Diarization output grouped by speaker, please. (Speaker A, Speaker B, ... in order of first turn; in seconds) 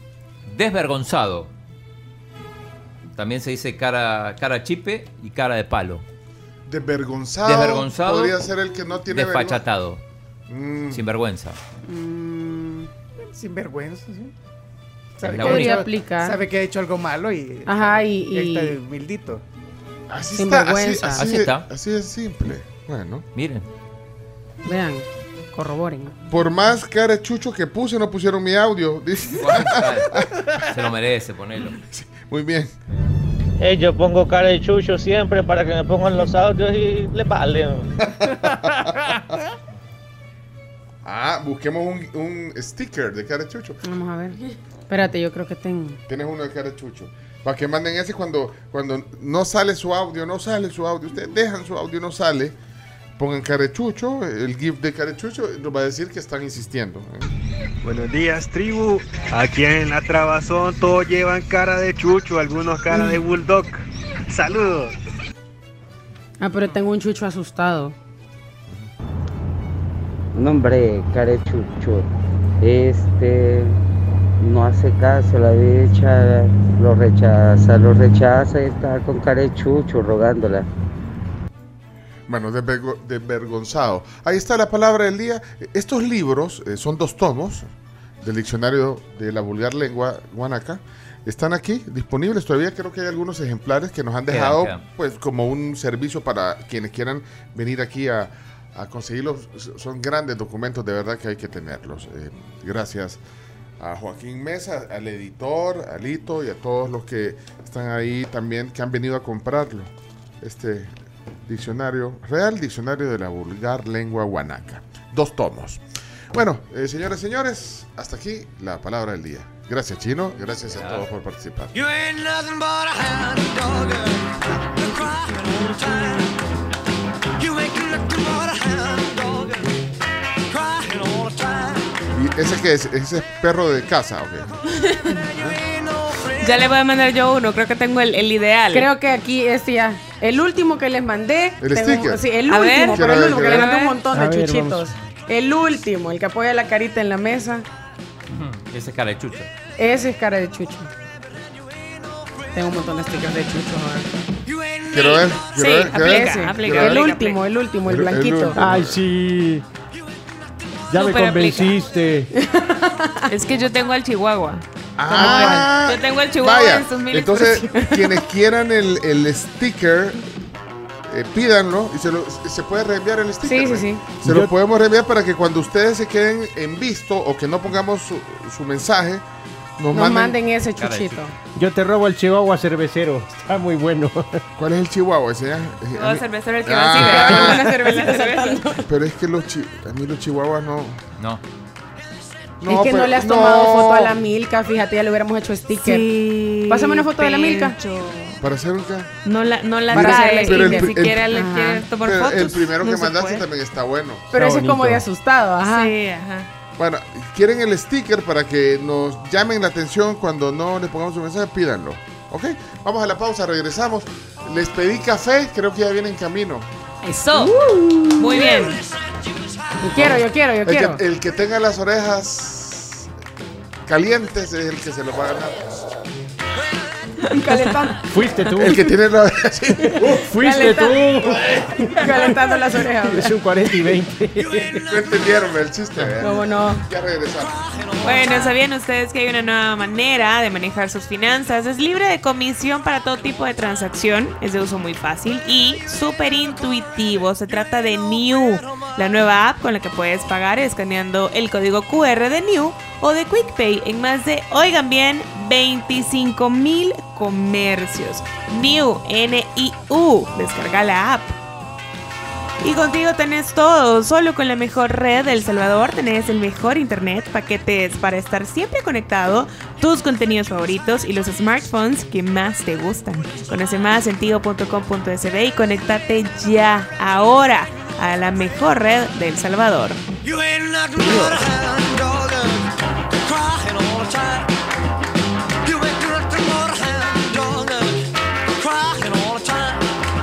Speaker A: 0.5-1.5, 3.2-6.0, 7.5-8.4, 9.1-10.0, 10.9-11.6, 15.2-15.8, 21.2-21.7, 23.4-23.7, 29.4-31.8, 94.3-94.8, 120.7-121.1, 148.3-149.5, 180.8-181.3
Speaker B: 6.7-9.7, 10.5-11.0, 20.1-23.3, 26.3-30.4, 31.7-32.7, 38.1-39.2, 41.0-43.8, 46.1-52.6, 53.2-57.3, 82.3-87.7, 88.2-103.2, 103.8-109.9, 110.4-110.9, 111.5-115.8, 116.3-121.8, 132.1-134.6, 141.6-142.3, 142.9-143.7, 154.9-157.2, 157.8-159.0, 165.0-170.3, 171.1-179.2, 179.8-180.4, 184.6-187.7, 188.9-191.0, 192.6-194.2, 198.4-199.1, 199.9-201.3, 202.0-204.3, 206.8-216.7, 219.9-223.1, 223.9-226.0, 228.6-230.2, 234.9-237.6
Speaker C: 11.9-12.9, 15.3-16.4, 17.6-18.8, 20.4-21.2, 24.7-26.1, 43.8-46.0, 62.9-63.2, 66.4-68.0, 138.7-147.7, 149.8-150.9, 152.5-154.1, 156.1-158.6, 162.4-163.1, 165.1-165.7, 173.4-174.0, 179.9-181.3, 186.9-188.7, 192.7-197.8, 199.9-201.8, 204.3-205.9, 217.3-218.8, 219.8-221.0, 227.4-228.0, 230.4-233.4, 236.2-236.8
Speaker D: 13.3-14.3, 15.2-19.4
Speaker E: 33.6-37.7
Speaker F: 57.9-60.4, 61.1-63.0
Speaker G: 70.3-72.1, 72.6-73.8, 74.4-80.7
Speaker H: 121.8-124.2, 124.8-126.3, 127.4-129.6, 130.5-131.8, 234.4-235.3, 237.5-238.5, 280.2-282.6, 283.3-284.5, 285.6-287.8, 288.6-289.8
Speaker I: 136.4-138.9, 142.5-144.0, 155.5-157.4, 160.9-161.8, 163.3-167.9, 185.9-188.8, 195.8-198.4, 199.2-203.5, 205.6-206.5, 217.0-217.6, 218.2-218.8, 227.3-228.0, 238.0-261.4, 262.6-280.0
Speaker J: 144.2-144.8, 158.6-159.6, 160.9-162.3, 181.6-184.4, 204.5-205.0, 228.1-228.7, 230.2-231.3, 233.0-234.4